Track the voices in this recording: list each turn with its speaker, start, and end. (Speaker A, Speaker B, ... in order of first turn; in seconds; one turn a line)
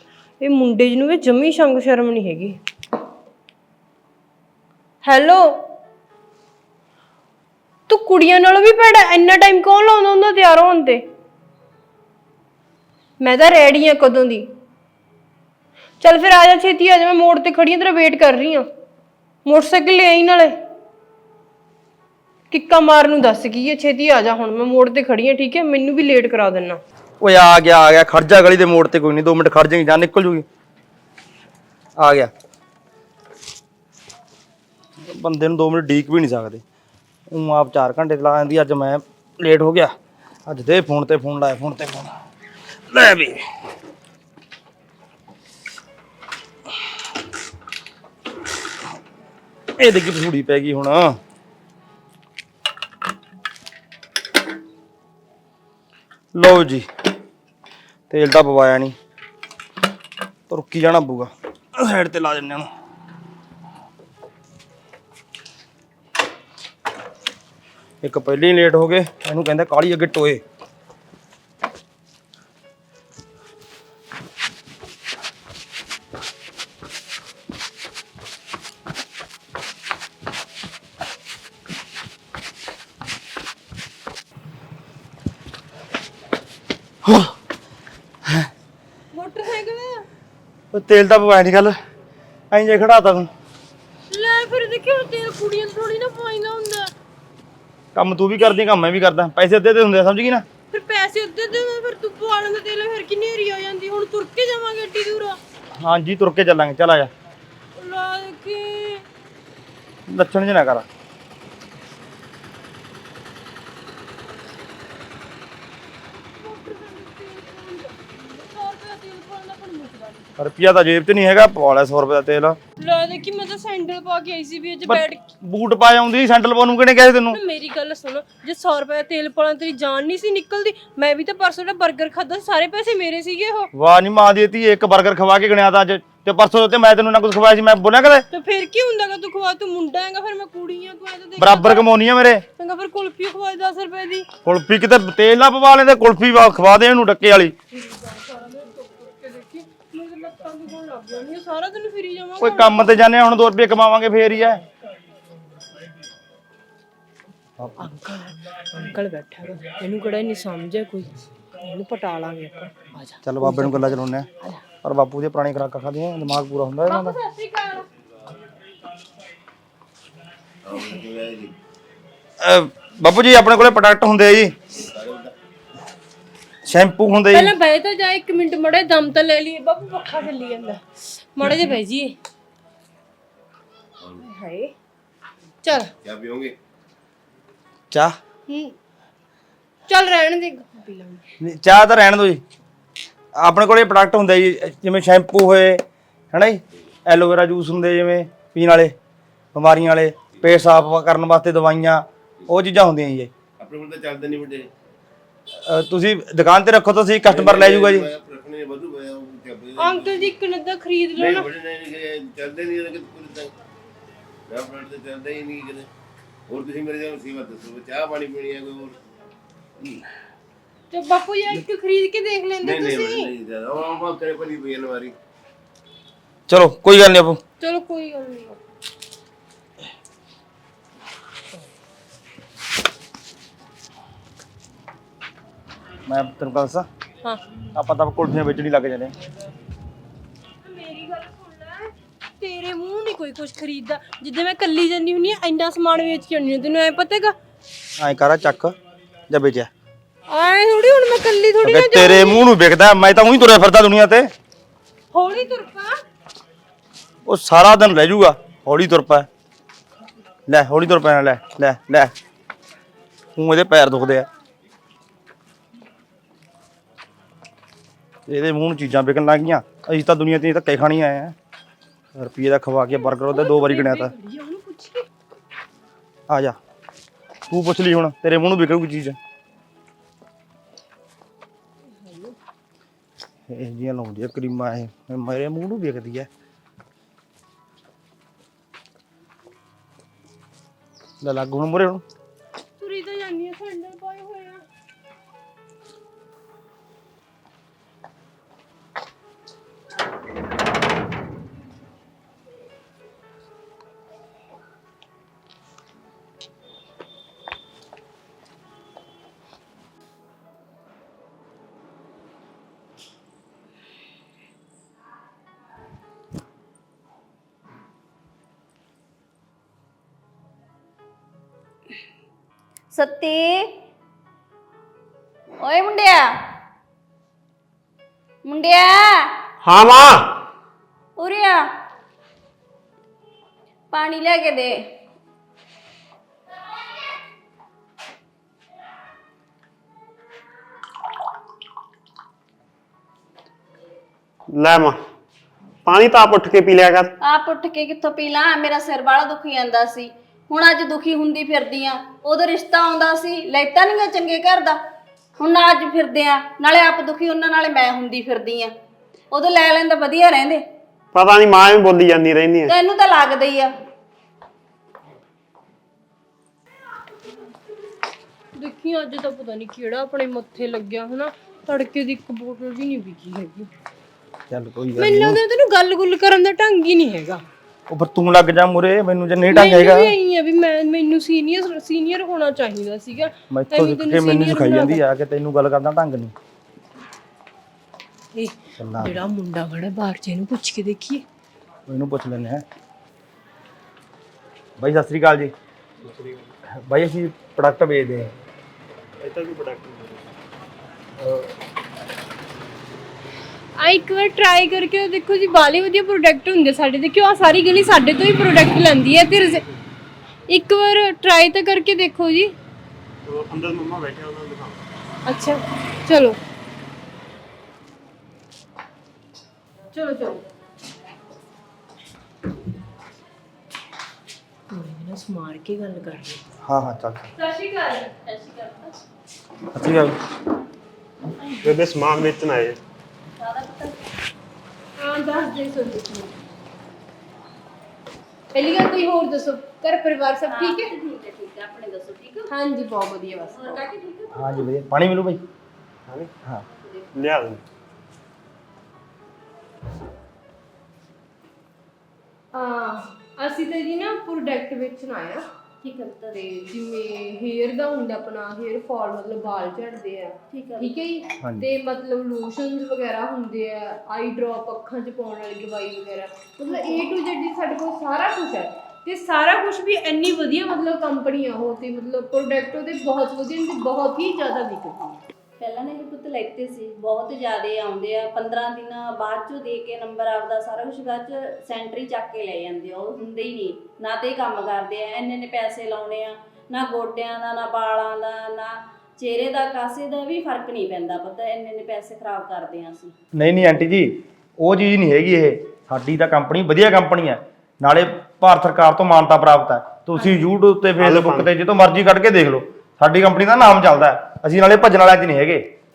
Speaker A: 0.4-2.6
Speaker A: 5.0-5.7
Speaker A: 7.9-11.0
Speaker A: 13.2-14.5
Speaker A: 16.0-18.7
Speaker A: 19.4-20.6
Speaker A: 22.5-26.8
Speaker B: 27.2-30.4
Speaker B: 32.0-32.3
Speaker B: 35.0-36.6
Speaker B: 37.3-39.9
Speaker B: 40.5-42.1
Speaker B: 42.9-43.4
Speaker B: 49.8-51.2
Speaker B: 56.3-56.9
Speaker B: 58.1-59.0
Speaker B: 60.5-62.7
Speaker B: 68.0-70.4
Speaker B: 87.0-87.4
Speaker A: 89.1-90.1
Speaker B: 90.7-91.8
Speaker B: 92.5-93.3
Speaker A: 94.1-96.9
Speaker B: 97.9-100.4
Speaker A: 100.7-105.4
Speaker B: 105.8-107.1
Speaker A: 107.8-109.0
Speaker B: 110.1-110.8
Speaker A: 116.2-120.3
Speaker B: 120.4-122.6
Speaker A: 122.8-125.2
Speaker B: 124.8-127.4
Speaker A: 127.3-133.7
Speaker B: 133.7-138.3
Speaker A: 138.3-141.9
Speaker B: 141.4-142.4
Speaker A: 142.6-144.3
Speaker B: 144.4-147.5
Speaker A: 147.7-152.9
Speaker B: 152.4-154.7
Speaker B: 157.6-157.9
Speaker A: 157.8-164.6
Speaker B: 163.2-164.3
Speaker B: 164.8-167.2
Speaker A: 166.8-167.9
Speaker C: 170.6-171.5
Speaker B: 172.4-174.5
Speaker C: 174.8-175.3
Speaker B: 176.7-177.5
Speaker A: 177.3-182.1
Speaker A: 184.2-184.7
Speaker A: 185.6-185.9
Speaker C: 186.0-186.6
Speaker B: 187.9-188.2
Speaker A: 188.5-188.8
Speaker A: 189.9-191.2
Speaker B: 191.4-192.4
Speaker B: 193.4-198.9
Speaker B: 199.5-203.3
Speaker C: 203.6-204.7
Speaker B: 205.6-208.1
Speaker C: 207.3-210.3
Speaker A: 209.8-211.5
Speaker C: 211.2-213.5
Speaker C: 214.5-215.9
Speaker C: 216.5-219.0
Speaker A: 220.9-223.3
Speaker C: 222.6-225.2
Speaker B: 226.5-227.4
Speaker A: 227.6-228.6
Speaker B: 236.1-236.9
Speaker B: 237.7-239.1
Speaker A: 240.6-247.3
Speaker B: 248.0-248.8
Speaker B: 249.3-249.7
Speaker A: 250.3-252.5
Speaker B: 251.6-254.3
Speaker A: 255.1-256.0
Speaker B: 257.2-259.3
Speaker B: 260.5-262.1
Speaker B: 263.3-264.3
Speaker B: 268.3-271.4
Speaker B: 272.1-274.1
Speaker A: 272.9-275.1
Speaker B: 276.3-276.6
Speaker B: 277.5-279.2
Speaker A: 281.9-282.4
Speaker B: 283.5-286.3
Speaker B: 291.2-292.0
Speaker A: 292.8-294.6
Speaker D: 322.9-323.8
Speaker D: 325.6-326.4
Speaker D: 328.4-329.3
Speaker E: 329.6-330.4
Speaker D: 331.2-331.6
Speaker D: 333.9-334.8
Speaker E: 344.5-345.0
Speaker E: 345.8-347.1
Speaker D: 347.2-354.8
Speaker D: 355.4-358.7
Speaker D: 359.3-360.6
Speaker E: 361.1-362.7
Speaker D: 362.7-363.7
Speaker A: 368.5-373.7
Speaker B: 374.5-375.4
Speaker A: 375.0-377.4
Speaker B: 377.9-380.1
Speaker A: 379.5-385.0
Speaker B: 383.5-386.3
Speaker A: 388.3-391.2
Speaker B: 388.8-389.2
Speaker B: 391.9-392.6
Speaker B: 394.8-395.5
Speaker E: 396.0-396.5
Speaker B: 396.7-398.4
Speaker E: 399.2-400.3
Speaker B: 401.2-401.5
Speaker A: 403.8-409.6
Speaker A: 410.5-412.5
Speaker E: 413.2-414.8
Speaker A: 415.2-416.4
Speaker A: 419.9-420.4
Speaker A: 424.7-426.4
Speaker B: 426.6-427.3
Speaker A: 427.4-428.1
Speaker D: 428.2-428.9
Speaker B: 429.7-430.2
Speaker E: 431.6-432.8
Speaker D: 433.4-434.0
Speaker A: 435.0-436.3
Speaker A: 438.5-440.9
Speaker D: 440.5-442.5
Speaker A: 442.5-444.3
Speaker D: 443.4-443.9
Speaker B: 444.3-445.4
Speaker E: 446.1-446.3
Speaker D: 446.7-447.1
Speaker E: 447.1-447.6
Speaker A: 452.5-455.4
Speaker D: 455.8-456.4
Speaker A: 456.3-475.2
Speaker D: 460.5-461.1
Speaker B: 461.4-461.7
Speaker D: 466.7-467.1
Speaker D: 475.6-493.1
Speaker B: 493.3-505.7
Speaker A: 500.2-500.4
Speaker E: 501.0-501.5